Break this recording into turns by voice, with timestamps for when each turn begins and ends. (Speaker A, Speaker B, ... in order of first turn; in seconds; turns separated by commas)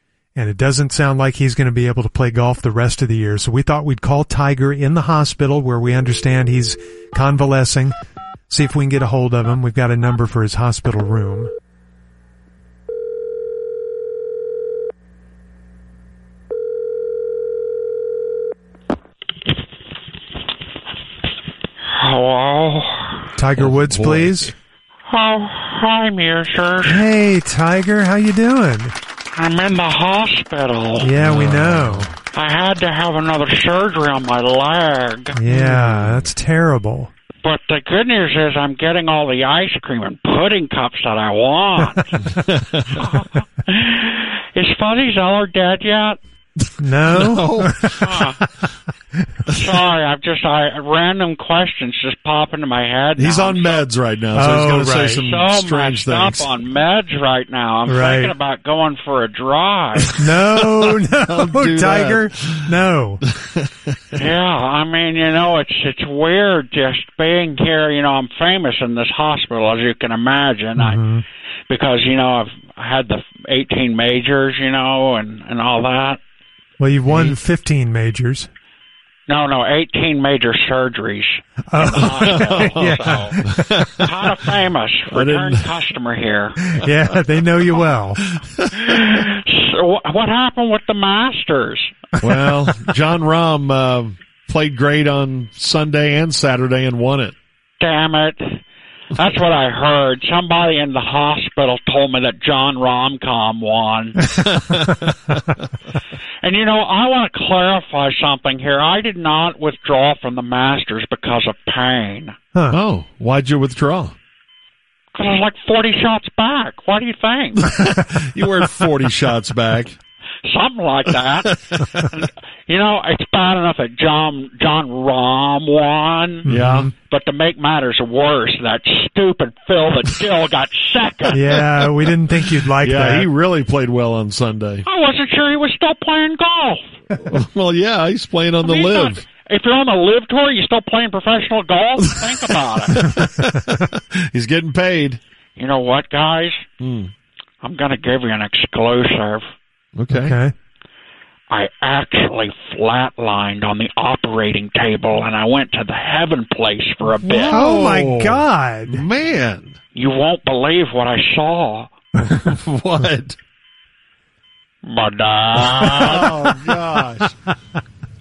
Speaker A: 0.3-7.9, Speaker A: 8.5-11.5, Speaker B: 21.9-23.3, Speaker A: 23.4-24.5, Speaker C: 23.6-24.5, Speaker B: 25.1-27.1, Speaker A: 26.8-28.9, Speaker B: 29.3-31.1, Speaker A: 31.0-32.1, Speaker C: 31.1-32.1, Speaker B: 32.3-35.4, Speaker A: 35.4-37.1, Speaker C: 35.5-36.2, Speaker B: 37.4-42.2, Speaker C: 42.2-43.0, Speaker B: 42.9-46.2, Speaker A: 46.8-48.5, Speaker C: 47.1-48.0, Speaker B: 47.9-48.4, Speaker B: 49.5-53.8, Speaker C: 53.2-56.5, Speaker A: 54.3-55.2, Speaker B: 55.1-60.2, Speaker A: 57.9-58.3, Speaker C: 60.1-63.7, Speaker A: 60.2-63.2, Speaker B: 64.1-71.0, Speaker A: 70.8-71.2, Speaker B: 71.7-76.2, Speaker A: 76.8-78.5, Speaker C: 77.1-77.4, Speaker B: 79.3-86.6, Speaker A: 81.7-83.5, Speaker C: 82.2-84.0, Speaker C: 85.1-85.7, Speaker A: 86.7-88.2, Speaker C: 88.3-88.7, Speaker B: 88.7-91.9, Speaker C: 92.2-97.3, Speaker B: 97.8-98.6, Speaker B: 99.1-104.2, Speaker C: 104.2-105.5, Speaker B: 106.4-112.3, Speaker C: 112.7-114.2, Speaker B: 115.1-117.7, Speaker C: 117.5-120.0, Speaker B: 120.4-126.5, Speaker C: 121.2-121.9, Speaker A: 126.4-126.9, Speaker C: 126.5-126.9, Speaker B: 127.0-131.4, Speaker A: 131.3-133.2, Speaker C: 132.6-134.8, Speaker B: 134.8-136.8, Speaker C: 137.1-139.2, Speaker B: 138.6-143.1, Speaker C: 142.9-145.2, Speaker B: 145.6-146.6, Speaker C: 146.8-147.1, Speaker B: 147.6-149.4, Speaker C: 149.9-150.3, Speaker A: 150.1-150.5, Speaker B: 151.5-157.6, Speaker C: 157.2-159.8, Speaker A: 157.5-159.0, Speaker B: 159.9-161.9, Speaker C: 162.2-163.4, Speaker B: 164.8-166.4, Speaker C: 165.9-167.4